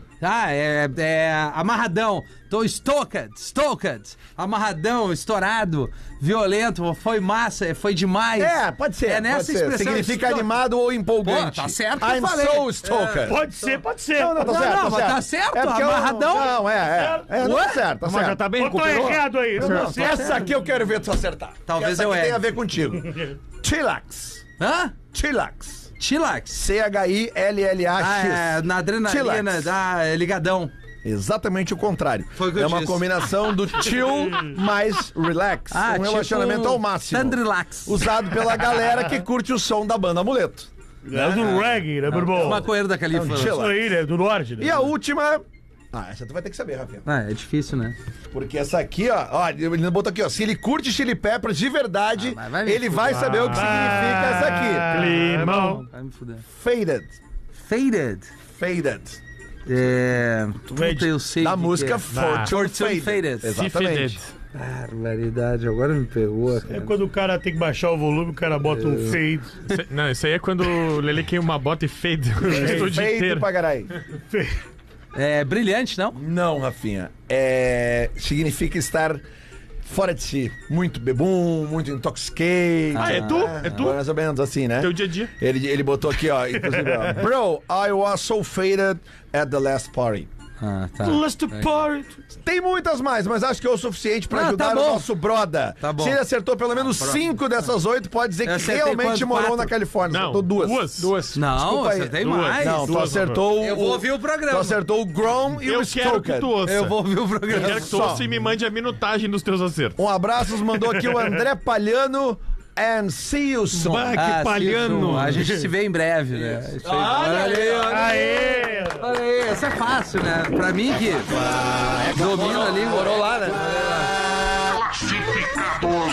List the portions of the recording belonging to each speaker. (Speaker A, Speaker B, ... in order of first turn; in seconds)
Speaker A: 0.2-10.5, 11.2-13.4, 14.4-16.5, 17.4-17.9, 21.7-22.4, 24.6-24.9, 26.0-26.6, 28.0-30.7, 32.4-33.1, 35.7-38.0, 42.1-43.7, 47.0-48.0, 52.2-53.6, 55.4-56.4, 57.5-58.3, 59.6-63.5, 64.5-66.9, 68.7-69.2, 75.1-76.2, 82.9-83.9, 90.6-91.8, 94.3-95.0, 95.8-96.2, 96.8-97.2, 98.4-99.7, 101.3-103.0, 103.5-104.8, 106.7-108.1, 114.1-121.3, 122.1-123.2, 123.7-124.0
Speaker B: 8.3-13.4, 14.1-18.4, 19.6-24.4, 25.1-25.9, 26.5-29.7, 31.0-41.7, 43.1-43.9, 44.6-47.0, 48.3-55.0, 56.5-57.2, 58.5-59.2, 61.4-64.2, 72.5-73.9, 76.1-79.2, 79.8-90.3, 92.4-106.5, 107.5-108.2, 110.0-114.2, 116.4-118.4, 121.3-124.1
Speaker C: 13.2-14.4, 16.9-17.3, 18.6-20.5, 41.0-42.7, 43.4-44.9, 53.5-55.8, 60.7-61.1, 66.7-69.5, 74.3-74.6, 86.7-87.1, 91.0-92.2, 117.9-119.0
Speaker D: 18.0-19.8, 113.7-115.6
Speaker E: 54.9-55.8, 62.1-62.5, 63.5-64.3, 69.7-73.5, 83.0-84.0, 84.8-85.3, 100.1-101.4, 102.2-103.5, 105.6-110.0